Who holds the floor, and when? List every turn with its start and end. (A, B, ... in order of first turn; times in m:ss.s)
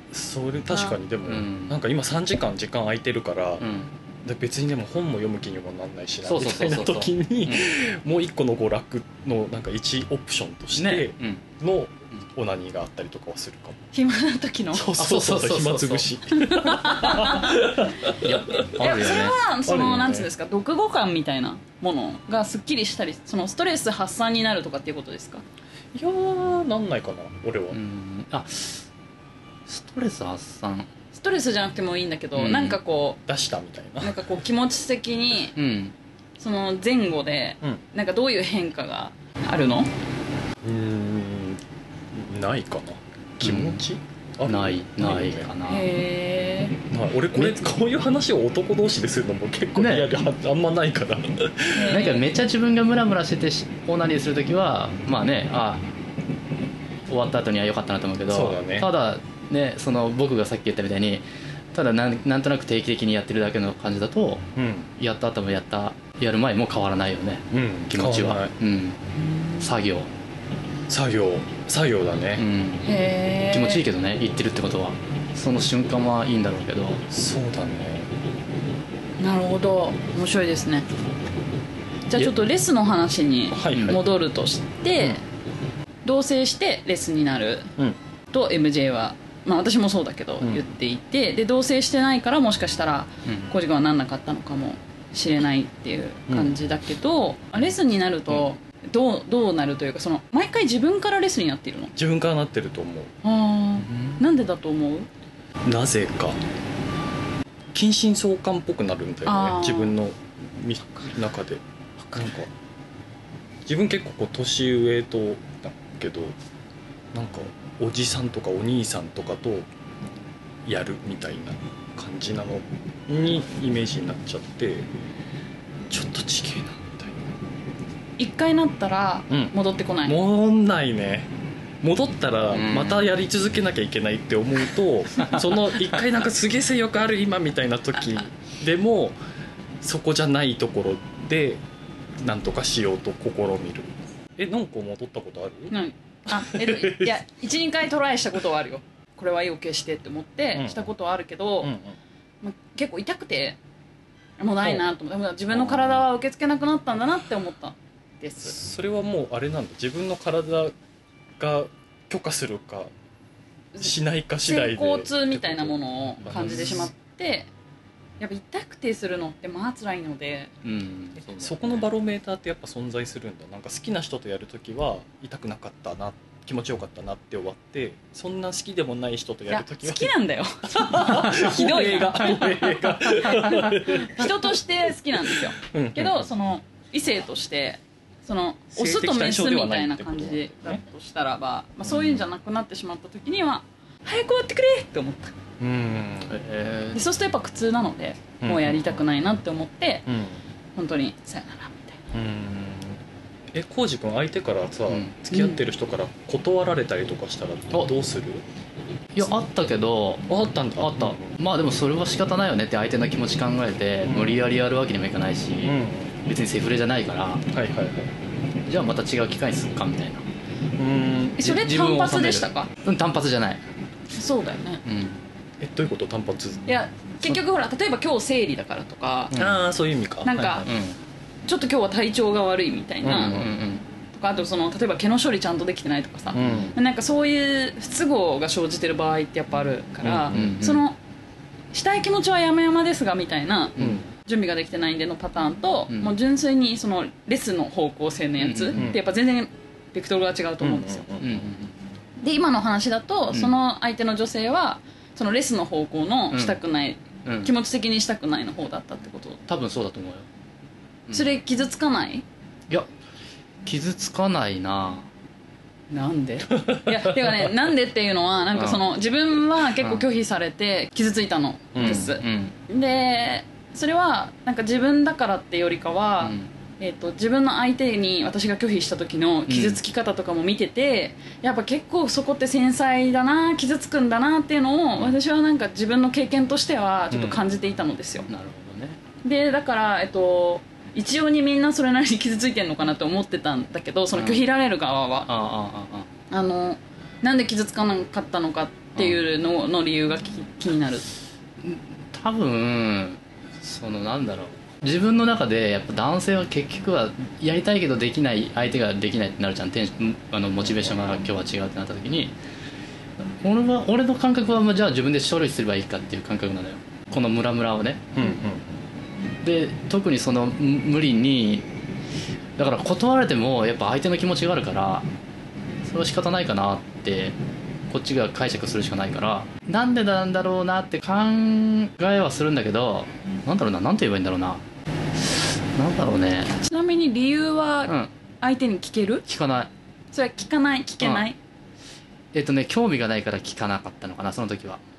0:00.1-0:03.6 A
0:00.7-0:01.0 B
0:01.2-0:01.8 C
0:03.6-0:03.9 C
0:04.2-0:13.8 A
0:06.2-0:07.7 C
0:10.8-0:11.4 C
0:13.9-0:14.9 B
0:14.7-0:18.8 A
0:15.0-0:16.1 C
0:16.3-0:17.6 B
0:18.2-0:19.4 C
0:18.7-0:25.4 B
0:19.7-0:20.3 A
0:25.9-0:27.8 A
0:27.7-0:28.9 C
0:29.7-0:30.9 C
0:31.1-0:33.2 B
0:32.4-0:34.3 A
0:34.0-0:35.6 B
0:35.6-0:36.0 C
0:36.4-0:39.9 B
0:40.6-0:41.6 A
0:42.1-0:45.5 A
0:43.4-0:43.8 C
0:44.4-0:45.9 C
0:45.7-0:46.8 B
0:46.9-0:52.0 A
0:47.4-0:47.7 C
0:49.8-0:50.1 C
0:51.7-0:52.2 B
0:51.9-0:55.9 C
0:57.1-1:04.4 C
0:58.3-0:58.9 A
1:04.6-1:04.9 A
1:05.0-1:09.0 C
1:07.5-1:08.5 A
1:09.2-1:09.7 B
1:09.6-1:10.1 C
1:10.9-1:12.5 A
1:12.4-1:12.9 C
1:12.8-1:13.8 B
1:13.5-1:17.0 C
1:17.1-1:18.1 A
1:19.2-1:20.9 B
1:22.1-1:25.2 B
1:23.5-1:24.0 A
1:23.7-1:24.0 C
1:26.0-1:27.7 B
1:28.3-1:41.9 B
1:42.0-1:43.1 A
1:43.2-1:45.1 B
1:43.9-1:44.2 C
1:45.6-1:46.4 A
1:47.7-1:51.6 A
1:49.3-1:50.0 B
1:52.1-1:52.5 A
1:53.6-1:56.4 A
1:57.1-1:59.7 A
2:00.7-2:04.9 A
2:05.9-2:07.2 A
2:08.2-2:10.2 B
2:09.3-2:11.3 A
2:11.8-2:19.2 A
2:12.5-2:13.0 C
2:19.8-2:21.6 A
2:22.2-2:25.7 A
2:25.7-2:31.7 B
2:26.3-2:27.2 A
2:30.5-2:30.9 A
2:31.6-2:32.0 A
2:32.4-2:33.6 B
2:34.4-2:38.6 B
2:34.6-2:34.9 A
2:35.5-2:36.0 A
2:38.4-2:40.7 A
2:41.4-2:42.9 A
2:43.7-2:47.5 B
2:43.8-2:46.9 A
2:46.2-2:46.8 C
2:48.2-2:50.5 B
2:50.6-2:51.9 C
2:51.4-3:00.2 A
2:59.5-3:15.4 B
3:00.7-3:04.6 A
3:05.2-3:06.3 A
3:08.8-3:10.8 A
3:15.6-3:16.4 A
3:16.3-3:17.0 C
3:16.9-3:20.1 B
3:18.4-3:19.0 A
3:20.1-3:20.4 A
3:20.8-3:22.0 B
3:22.1-3:23.0 A
3:23.5-3:28.4 A
3:25.3-3:25.6 B
3:29.1-3:37.4 C
3:30.3-3:31.3 A
3:34.0-3:34.4 A
3:35.6-3:36.1 A
3:37.5-3:38.2 A
3:38.7-3:40.2 C
3:40.8-3:41.4 A
3:41.4-3:43.6 C
3:41.4-3:42.7 B
3:44.2-3:44.8 B
3:44.8-3:45.2 C
3:45.6-3:46.7 A
3:46.7-3:49.4 B
3:49.4-3:50.6 A
3:50.2-3:50.7 B
3:50.6-3:51.0 C
3:51.5-3:53.5 B
3:53.0-3:53.4 A
3:53.1-3:53.8 C
3:54.1-4:01.0 B
3:56.3-3:56.8 A
4:00.0-4:00.6 A
4:00.3-4:00.8 C
4:01.7-4:11.1 B
4:03.8-4:04.0 C
4:03.8-4:04.0 A
4:08.4-4:08.9 C
4:10.6-4:11.4 A
4:11.2-4:11.7 C
4:12.2-4:19.4 B
4:16.3-4:16.6 C
4:17.2-4:17.5 C
4:19.5-4:20.3 C
4:21.1-4:21.4 C
4:21.1-4:22.2 B
4:23.6-4:25.1 C
4:25.9-4:48.3 B
4:28.5-4:28.8 C
4:29.8-4:30.1 C
4:31.8-4:32.2 A
4:31.8-4:32.6 C
4:36.2-4:36.5 C
4:39.5-4:39.8 C
4:47.1-4:47.4 A
4:48.3-4:49.0 C
4:49.2-4:55.3 B
4:54.1-4:54.4 C
4:55.3-4:56.1 C
4:56.3-5:01.1 B
4:59.0-4:59.2 C
5:01.6-5:12.4 C
5:13.4-5:18.3 C
5:18.2-5:18.7 A
5:19.4-5:21.7 C
5:22.6-5:25.1 C
5:25.8-5:27.4 C
5:27.9-5:34.6 C
5:35.2-5:36.6 C
5:36.6-5:39.2 B
5:39.3-5:39.7 C
5:40.1-5:41.4 B
5:41.0-5:41.3 C
5:42.3-5:44.8 C